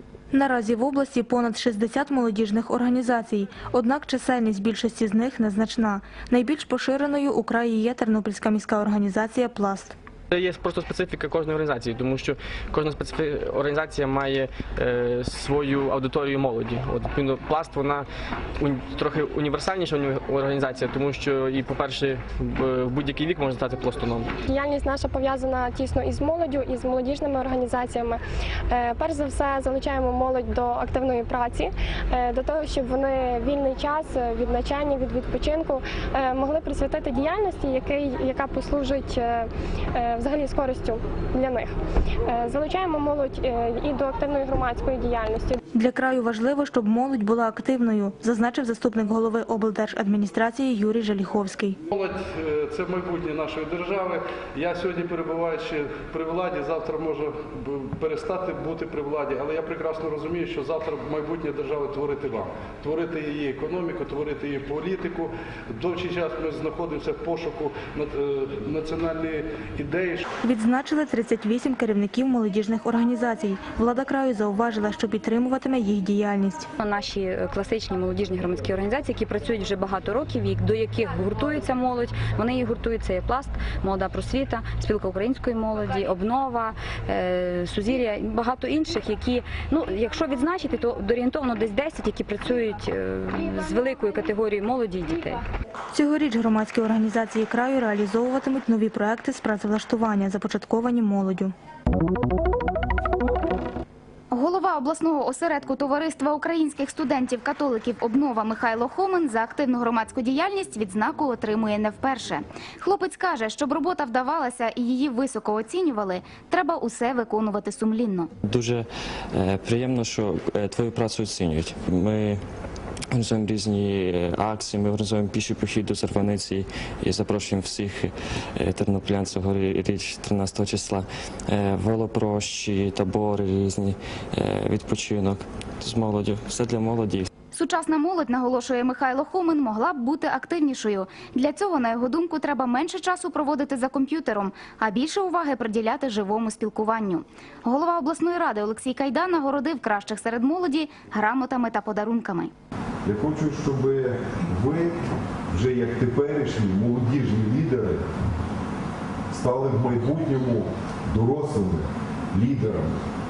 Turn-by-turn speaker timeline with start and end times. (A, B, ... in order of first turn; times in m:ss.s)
0:00.3-0:10.0 A
0:10.3-0:18.1 B
0:18.6-0:24.4 B
0:24.4-0:41.7 C
0:42.3-0:45.6 C
0:45.7-0:51.8 A
0:51.9-1:10.2 D
1:10.4-1:16.7 A
1:16.8-1:35.4 E
1:35.9-1:41.5 A
1:44.3-1:58.3 F
1:58.5-2:02.4 G
2:03.1-2:17.3 G
2:17.5-2:32.5 F
2:33.0-2:35.0 H
2:35.5-2:38.0 H
2:39.3-2:43.0 H